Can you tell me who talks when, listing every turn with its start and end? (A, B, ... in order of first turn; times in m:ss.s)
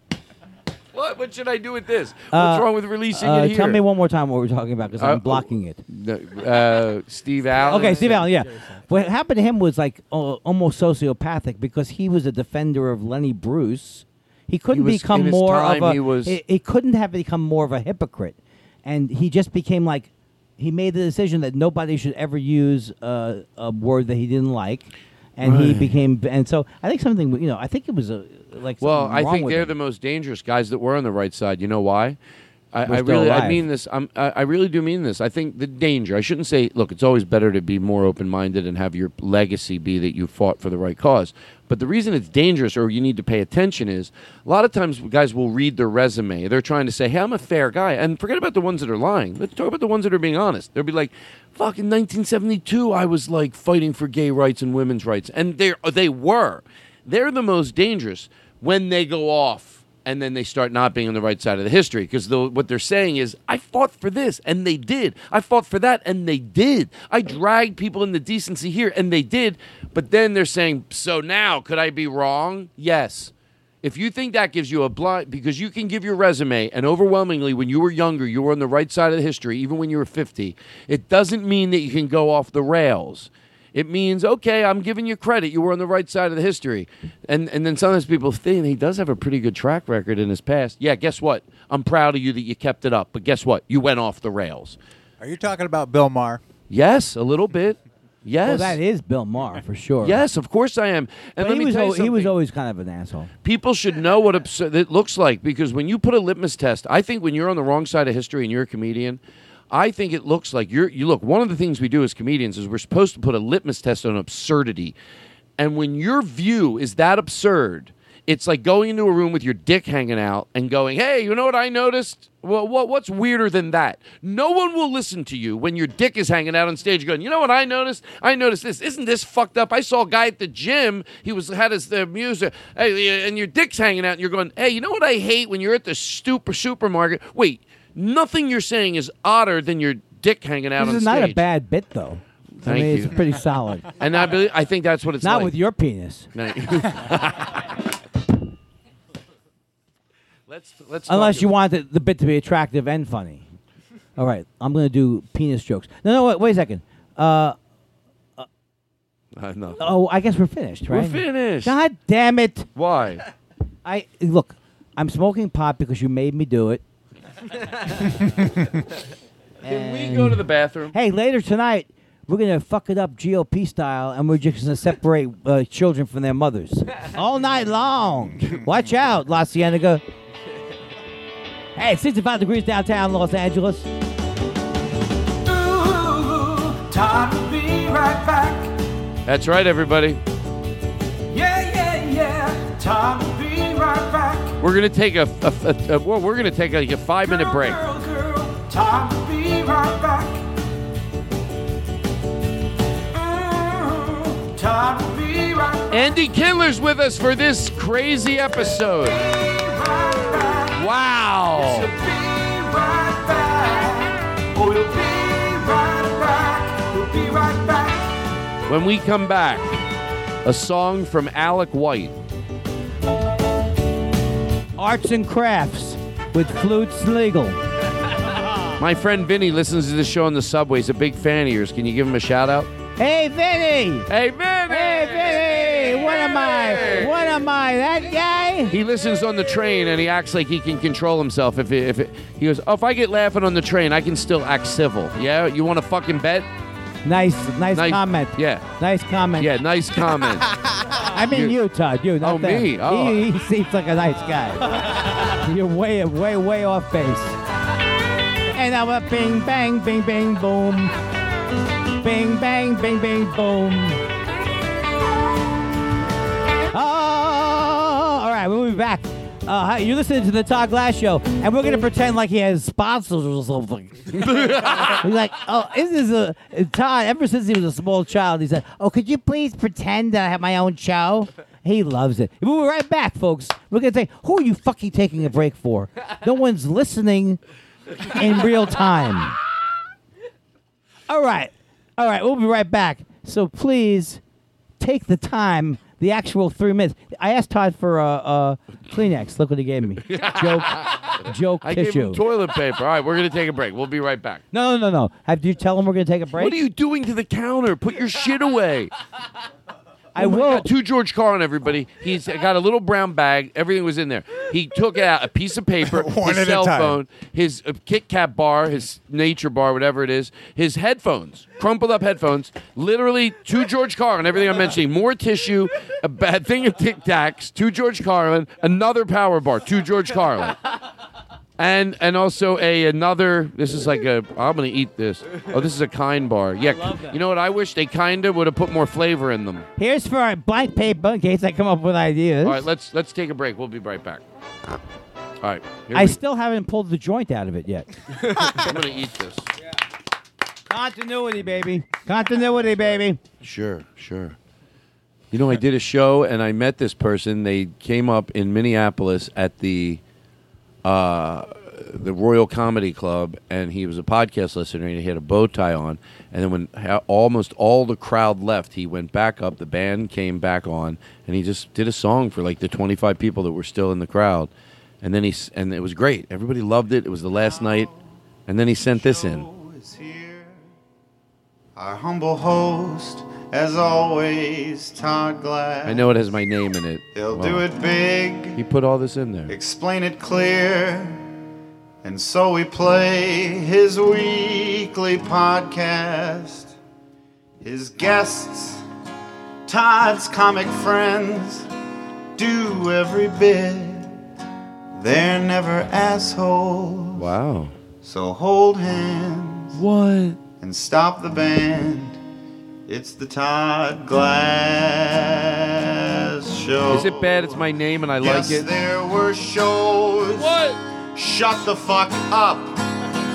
0:00.9-0:03.8 A
0:02.3-0:05.8 B
0:05.0-0:08.3 A
0:07.6-0:29.7 B
0:14.7-0:16.4 A
0:25.4-0:25.9 A
0:28.8-0:32.2 A
0:32.7-1:13.3 A
0:32.9-0:33.6 B
1:13.8-1:34.8 A
1:35.2-1:36.4 C
1:36.7-1:38.8 A
1:38.4-1:40.2 B
1:40.0-1:42.3 A
1:41.4-1:43.3 B
1:43.4-1:55.0 A
1:55.6-2:21.4 A
2:20.8-2:23.9 B
2:22.6-2:23.2 A
2:24.0-2:25.6 A
2:25.2-2:26.3 B
2:26.3-2:27.6 A
2:30.5-2:31.5 A
2:31.1-2:33.4 B
2:34.2-2:37.6 B
2:39.4-2:39.8 A
2:39.8-2:42.7 B
2:40.9-2:41.8 A
2:42.8-2:43.2 A
2:43.8-2:46.8 B
2:49.6-2:51.0 A
2:49.6-3:00.0 B
3:01.8-3:03.9 B
3:09.3-3:10.2 A
3:14.6-3:17.8 A
3:25.9-3:29.2 A
3:30.7-3:31.9 A
3:33.0-3:33.5 D
3:34.6-3:37.7 D
3:38.7-3:39.8 A
3:40.4-3:42.2 A
3:44.8-3:47.6 B
3:48.8-3:52.7 A
3:53.0-3:54.1 B
3:54.1-3:57.3 A
3:54.7-3:58.7 B
3:58.7-4:06.5 A
4:07.0-4:09.5 B
4:07.7-4:08.7 A
4:09.4-4:10.5 A
4:11.1-4:17.4 B
4:11.3-4:11.6 A
4:12.2-4:13.2 A
4:18.5-4:20.9 B
4:22.0-4:24.0 B
4:26.7-4:47.4 B
4:34.2-4:35.0 A
4:48.1-4:49.4 B
4:51.1-4:54.2 B
4:54.8-5:02.2 B
5:00.1-5:04.4 A
5:04.5-5:06.6 B
5:06.3-5:08.9 A
5:10.2-5:10.7 B
5:10.2-5:30.6 A
5:15.8-5:17.0 C
5:31.6-5:39.7 A
5:36.6-5:37.2 B
5:39.8-5:42.6 B
5:42.4-5:44.2 A
5:45.4-5:46.2 A
5:45.9-5:47.9 B
5:48.3-5:49.5 A
5:50.7-5:53.2 B
5:53.4-5:54.4 A
5:55.3-6:00.0 A
6:00.8-6:14.5 A
6:15.0-6:17.9 A
6:17.4-6:18.0 E
6:18.5-6:19.5 A
6:18.8-6:20.6 E
6:21.8-6:26.1 E
6:25.8-6:27.6 A
6:27.1-6:28.6 E
6:28.6-6:29.5 A
6:29.5-6:31.2 E
6:32.0-6:36.8 E
6:37.6-6:38.8 E
6:39.7-6:41.7 E
6:42.4-6:44.1 E
6:45.0-6:47.3 E
6:47.2-6:47.8 A
6:48.0-6:49.8 E
6:49.8-6:50.4 A
6:50.6-6:52.2 E
6:52.9-6:57.6 E
6:56.9-6:58.7 A
6:58.2-7:00.6 E
7:00.4-7:00.8 A
7:01.1-7:02.8 E